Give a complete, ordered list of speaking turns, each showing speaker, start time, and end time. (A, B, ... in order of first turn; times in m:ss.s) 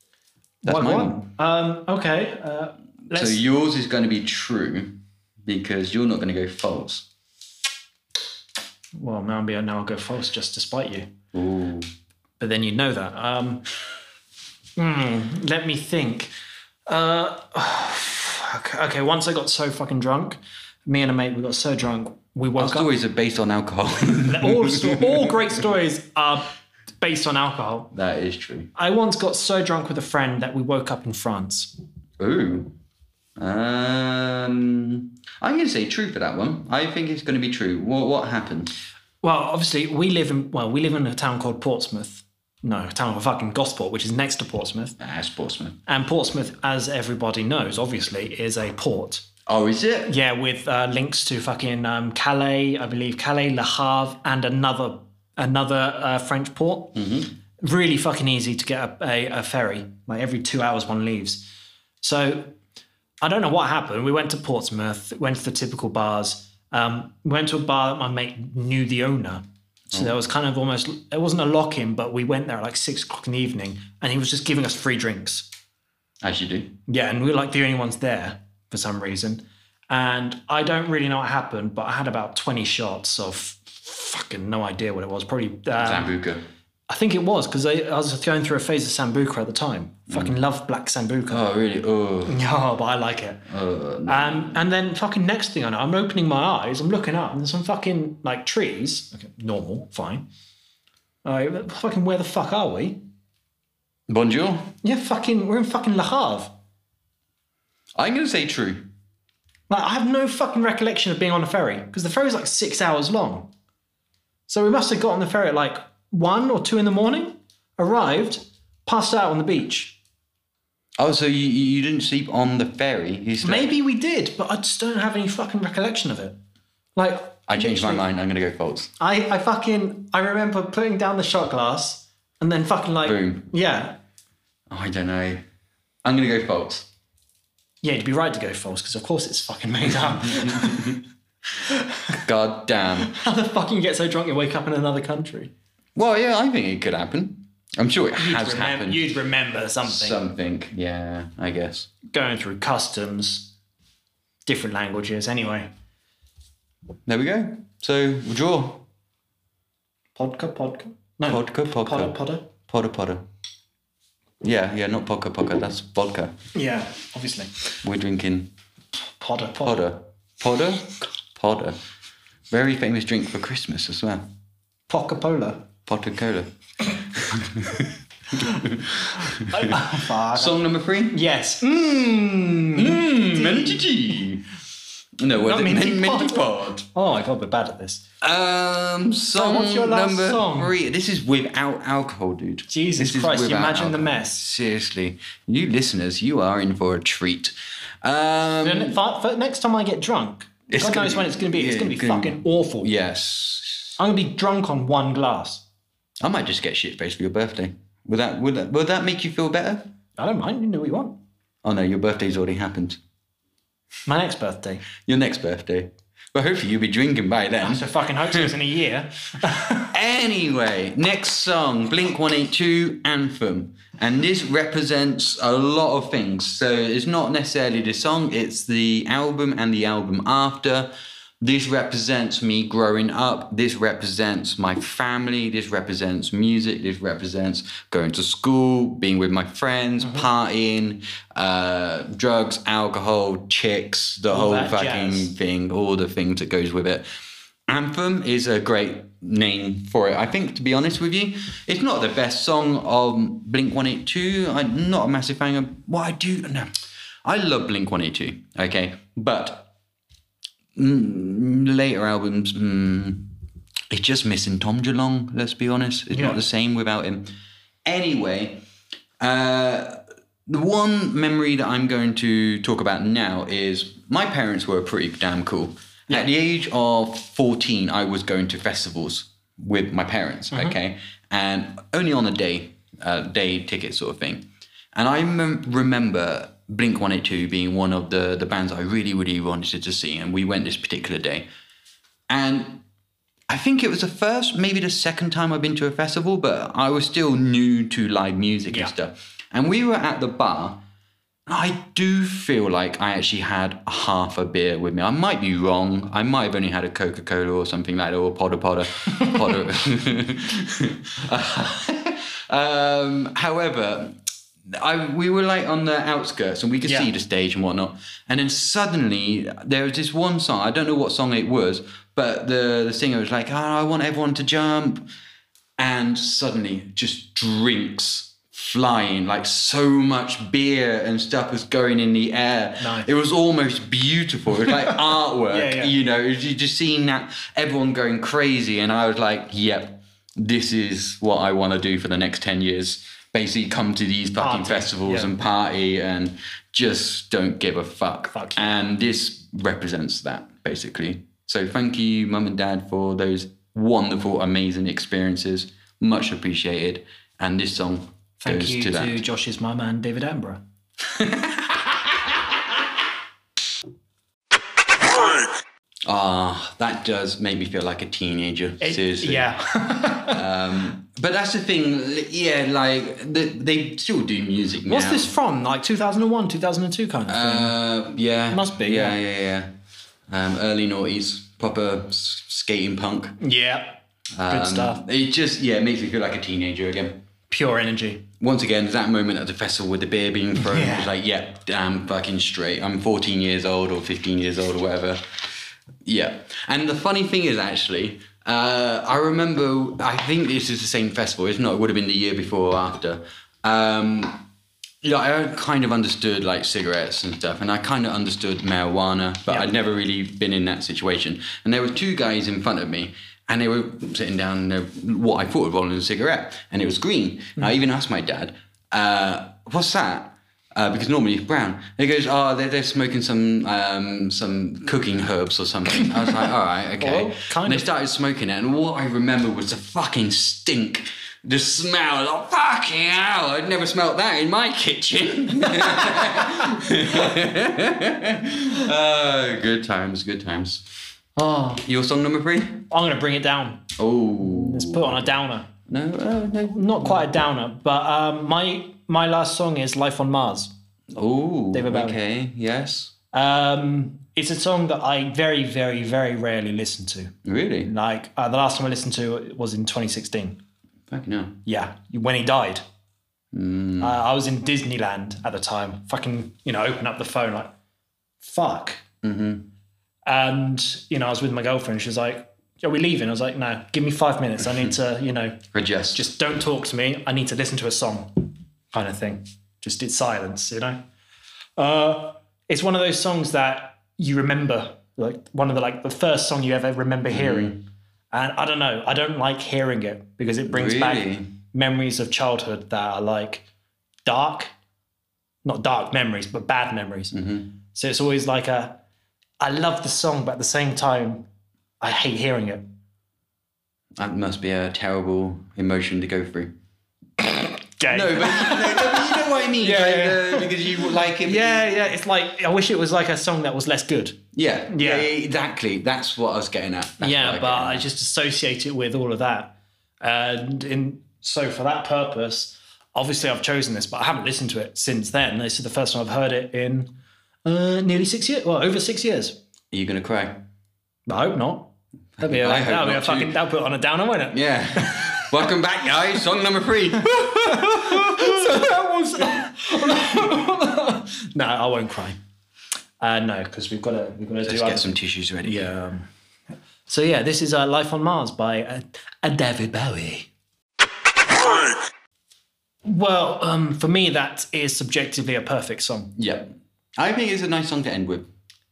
0:00.6-0:03.4 A
0:00.6-0:01.2 B
0:03.1-0:07.1 B
0:09.0-0:11.1 A
0:11.3-0:11.9 B
0:12.4-0:13.6 A
0:14.8-0:16.3 A
0:16.9-0:22.9 A
0:22.6-0:25.4 B
0:24.2-0:27.9 A
0:27.9-0:28.7 B
0:28.8-0:31.7 A
0:32.2-0:32.7 B
0:33.4-0:38.7 B
0:39.2-0:45.0 A
0:45.0-0:45.8 B
0:45.9-0:49.2 A
0:49.5-0:50.1 B
0:50.1-0:57.0 A
0:57.0-0:57.3 B
0:57.6-1:01.5 A
1:02.0-1:02.6 A
1:03.2-1:15.5 A
1:16.2-1:16.8 B
1:16.9-1:26.1 A
1:25.8-1:26.4 B
1:26.9-1:31.4 A
1:30.1-1:30.4 B
1:31.3-1:32.4 B
1:32.3-1:33.5 A
1:33.5-1:34.6 B
1:34.1-1:40.2 A
1:41.2-1:43.0 A
1:44.1-1:44.8 B
1:44.8-1:46.5 A
1:48.0-1:48.9 B
1:49.7-1:53.5 A
1:54.5-2:00.0 A
2:01.0-2:03.7 B
2:03.4-2:06.4 A
2:07.0-2:08.0 A
2:07.5-2:08.9 B
2:09.0-2:14.0 A
2:13.0-2:13.5 B
2:14.7-2:15.4 B
2:16.0-2:16.9 B
2:17.8-2:21.0 A
2:20.2-2:21.0 B
2:21.7-2:22.2 A
2:22.2-2:23.1 B
2:23.0-2:25.5 A
2:26.0-2:29.1 B
2:28.2-2:30.2 A
2:29.8-2:31.9 B
2:32.1-2:33.5 A
2:34.5-2:35.7 A
2:37.1-2:38.8 B
2:40.2-2:42.5 A
2:41.3-2:43.3 B
2:44.4-2:46.4 B
2:46.5-2:47.8 A
2:47.8-2:48.5 B
2:49.2-2:49.8 A
2:49.6-2:51.8 B
2:52.5-2:54.3 B
2:54.9-2:55.6 A
2:55.9-3:01.2 B
2:59.3-3:03.9 A
3:02.8-3:04.5 B
3:05.2-3:06.9 B
3:05.4-3:08.0 A
3:08.2-3:19.0 B
3:09.3-3:10.8 A
3:12.7-3:14.4 A
3:18.6-3:22.9 A
3:20.7-3:24.0 B
3:24.0-3:25.6 A
3:26.2-3:29.9 B
3:30.2-3:31.2 A
3:31.6-3:33.0 B
3:34.1-3:34.9 A
3:35.0-3:38.6 B
3:37.6-3:39.9 A
3:39.9-4:07.1 B
4:00.0-4:00.3 A
4:04.3-4:05.3 A
4:07.7-4:16.7 B
4:17.2-4:19.7 B
4:20.8-4:23.3 B
4:23.9-4:27.3 B
4:26.1-4:26.4 A
4:27.8-4:28.6 B
4:29.2-4:51.5 B
4:52.3-4:52.8 B
4:53.5-5:00.8 B
5:01.5-5:25.1 B
5:16.8-5:17.1 A
5:25.8-5:59.2 B
5:32.8-5:33.1 A
5:34.6-5:35.9 A
5:44.4-5:45.3 A
5:48.3-5:48.8 A
5:58.4-6:00.6 A
6:01.2-6:02.4 B
6:06.1-6:09.5 B
6:08.8-6:10.4 A
6:10.2-6:15.3 B
6:14.9-6:17.8 A
6:17.3-6:19.7 B
6:18.5-6:19.2 A
6:20.3-6:23.4 B
6:23.4-6:25.0 A
6:24.4-6:27.2 B
6:27.5-6:28.3 A
6:28.4-6:35.2 B
6:30.6-6:31.1 A
6:36.0-6:44.4 B
6:45.0-7:20.9 B
7:07.0-7:07.9 A
7:21.4-7:21.8 A
7:21.7-7:22.9 B
7:22.9-7:25.7 A
7:24.0-7:25.3 B
7:25.9-7:27.3 B
7:26.7-7:30.7 A
7:31.1-7:33.1 B
7:31.7-7:32.2 A
7:33.3-7:40.6 A
7:37.4-7:37.9 B
7:41.1-7:41.6 B
7:41.7-7:42.8 A
7:43.5-7:44.2 B
7:44.0-7:47.7 A
7:48.4-7:49.0 A
7:49.2-7:49.7 B
7:50.3-8:01.0 A
7:55.7-7:56.3 B
8:01.8-8:07.8 A
8:07.3-8:07.8 B
8:08.3-8:13.7 A
8:10.7-8:11.5 B
8:14.2-8:14.7 A
8:15.6-8:17.4 A
8:17.3-8:17.7 B
8:17.9-8:19.0 A
8:19.6-8:21.5 A
8:22.0-8:22.8 A
8:24.2-8:26.7 B
8:27.4-8:35.3 A
8:28.1-8:32.1 B
8:34.5-8:38.0 B
8:37.2-8:47.1 A
8:47.6-8:49.6 A
8:49.9-8:50.6 B
8:51.3-8:55.7 A
8:52.4-8:53.6 B
8:54.5-8:59.6 B
8:57.4-9:02.4 A
9:03.2-9:05.1 A
9:04.6-9:05.9 B
9:05.6-9:06.3 A
9:07.1-9:10.5 A
9:13.0-9:16.3 A
9:16.4-9:18.5 B